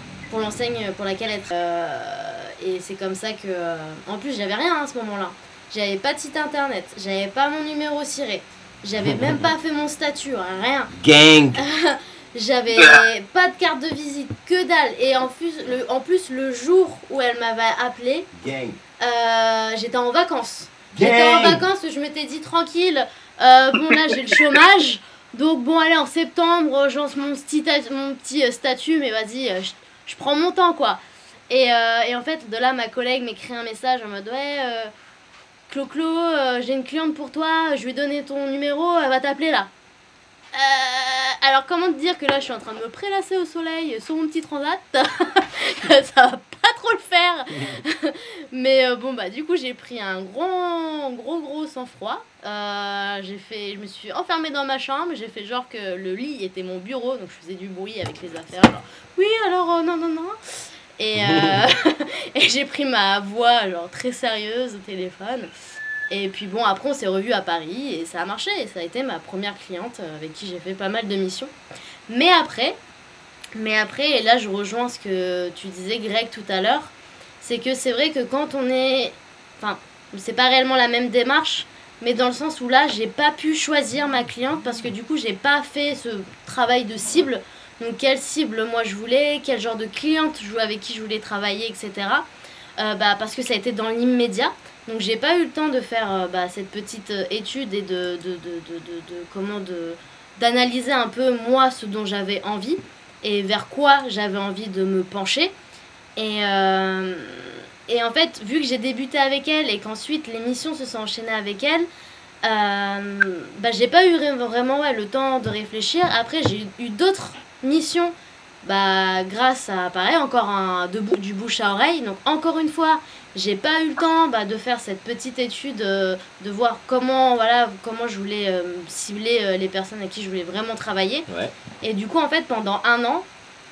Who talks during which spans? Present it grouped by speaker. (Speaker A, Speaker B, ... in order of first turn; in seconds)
Speaker A: 0.3-10.9, 11.6-18.3, 19.0-34.9, 35.7-39.7, 40.5-60.3, 61.0-65.5, 66.1-71.5, 72.1-72.8, 73.5-92.3, 92.8-105.5, 106.2-111.9, 112.4-131.3, 131.8-133.3
Speaker B: 9.0-9.4, 10.9-11.6, 18.3-18.8, 20.9-21.6, 61.1-61.6, 131.3-131.5